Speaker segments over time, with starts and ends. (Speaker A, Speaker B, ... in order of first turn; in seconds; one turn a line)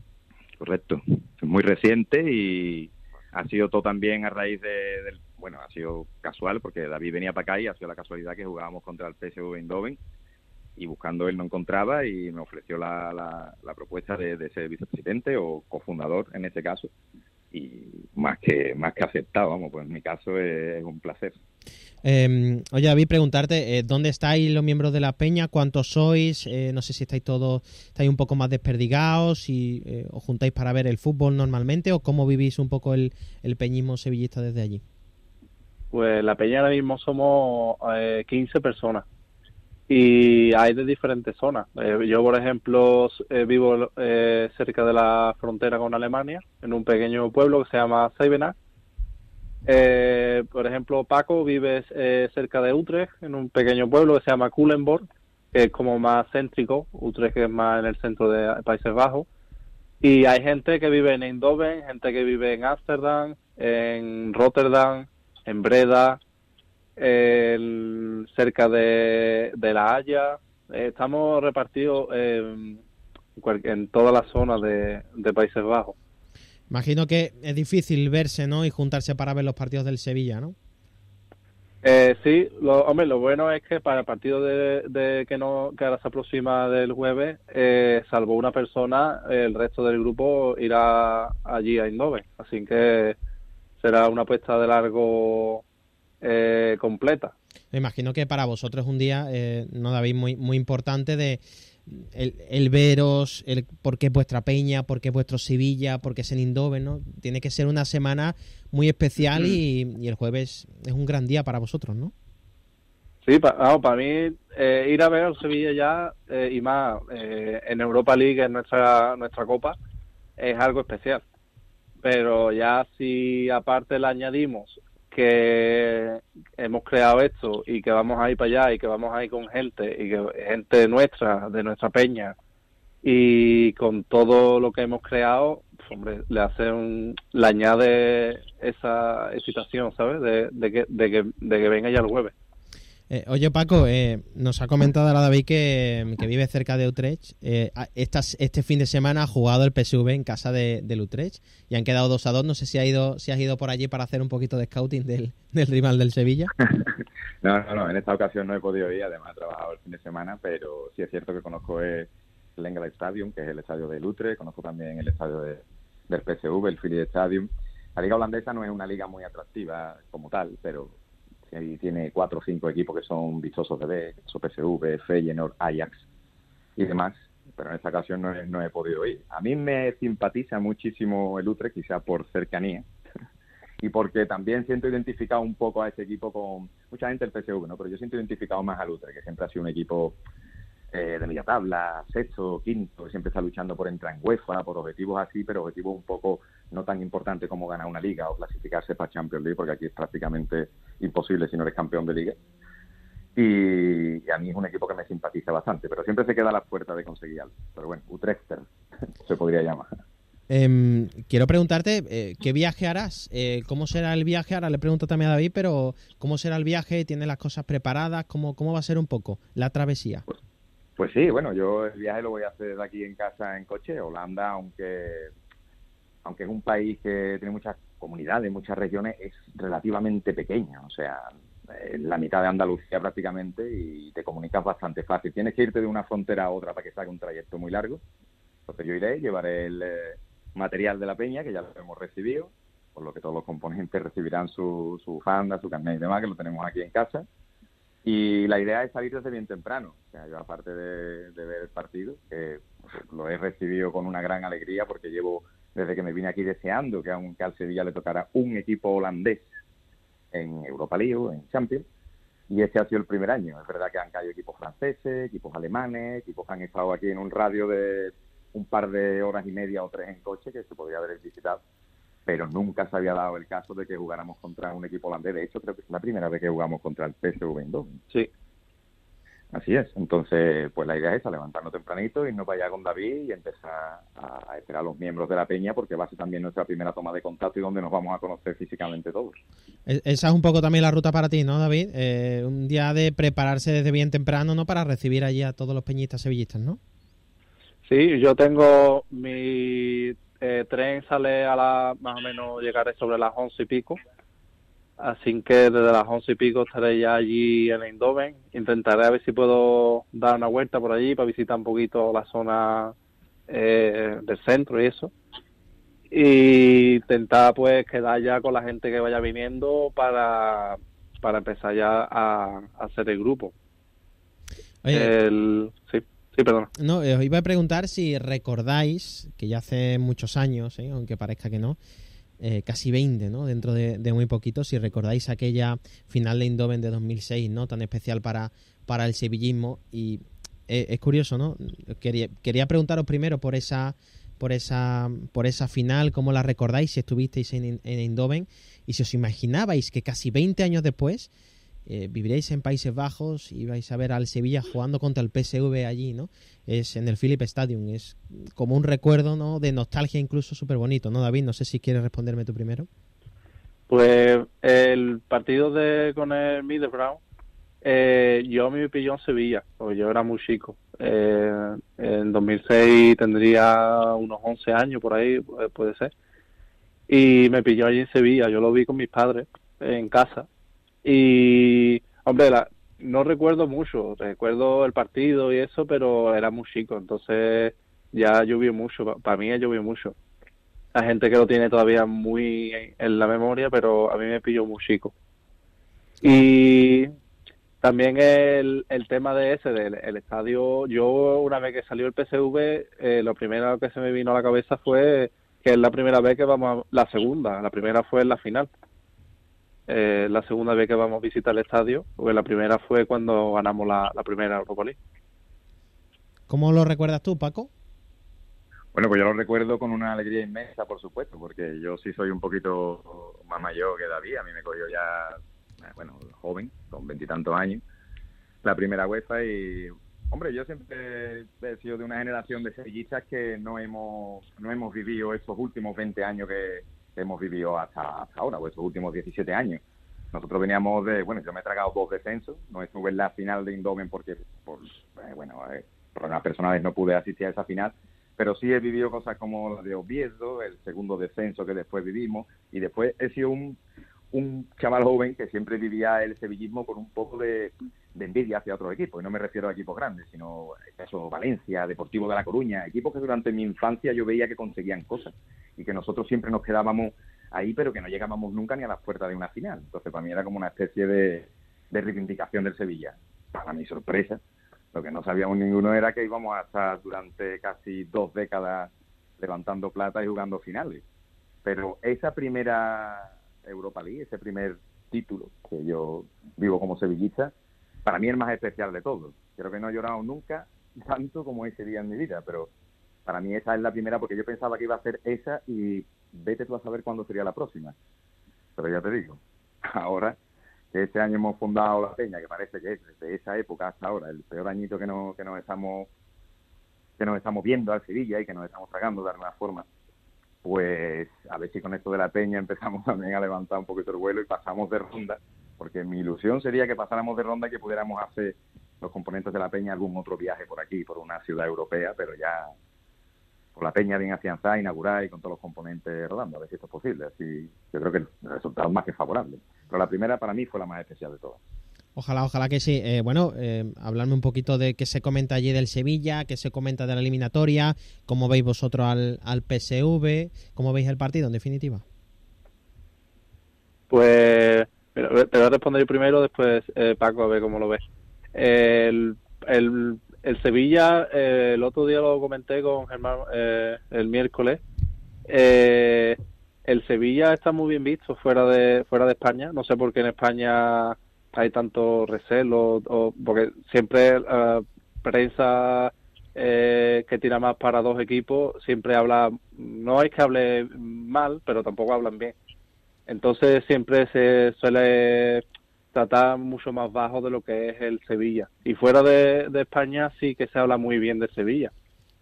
Speaker A: 0.6-10.0
Speaker A: 10.8-16.9
Speaker A: 17.5-21.4
Speaker B: 22.0-34.8
Speaker C: 35.9-39.0
Speaker C: 39.9-48.5
Speaker C: 49.7-59.3
Speaker C: 60.0-66.2
Speaker C: 67.0-72.8
Speaker C: 73.4-76.0
Speaker B: 76.7-80.5
Speaker C: 81.8-93.2
Speaker C: 93.8-95.6
Speaker C: 96.2-97.3
Speaker B: 97.7-112.1
Speaker C: 109.3-109.6
Speaker C: 113.2-119.8
Speaker C: 120.4-121.2
Speaker C: 122.0-132.3
Speaker C: 133.0-142.3
Speaker B: 143.1-156.5
Speaker A: 156.6-171.0
Speaker A: 171.5-176.1
Speaker A: 176.8-182.9
Speaker A: 183.8-190.2
Speaker A: 190.9-202.4
Speaker A: 203.4-208.7
Speaker A: 209.2-210.0
Speaker B: 210.5-220.2
Speaker A: 221.0-225.3
Speaker A: 226.2-238.0
Speaker A: 238.7-247.2
Speaker A: 248.1-259.5
Speaker A: 260.3-261.9
Speaker A: 262.5-271.6
Speaker A: 272.3-278.0
Speaker A: 279.5-289.4
Speaker B: 289.9-296.8
Speaker C: 297.9-304.0
Speaker C: 305.0-312.9
Speaker C: 313.5-315.1
Speaker C: 316.1-323.5
Speaker B: 324.9-325.1
Speaker C: 324.9-326.7
Speaker B: 326.8-331.8
Speaker B: 332.4-351.3
Speaker B: 351.9-362.9
Speaker C: 363.9-367.2
Speaker C: 367.8-376.1
Speaker C: 377.1-380.5
Speaker C: 381.0-390.1
Speaker C: 390.9-395.1
Speaker C: 396.2-397.1
Speaker C: 397.8-408.7
Speaker C: 409.9-415.0
Speaker B: 416.5-417.7
Speaker A: 418.9-427.8
Speaker A: 428.6-439.8
Speaker A: 440.3-453.8
Speaker A: 454.3-474.4
Speaker A: 474.9-481.0
Speaker A: 481.6-487.5
Speaker A: 488.1-492.7
Speaker A: 493.3-497.9
Speaker A: 498.8-500.4
Speaker A: 500.9-506.1
Speaker A: 507.2-509.9
Speaker A: 510.6-522.7
Speaker A: 523.8-531.6
Speaker B: 532.2-542.0
Speaker C: 544.1-548.0
Speaker C: 548.5-554.8
Speaker C: 555.5-572.5
Speaker C: 573.3-581.9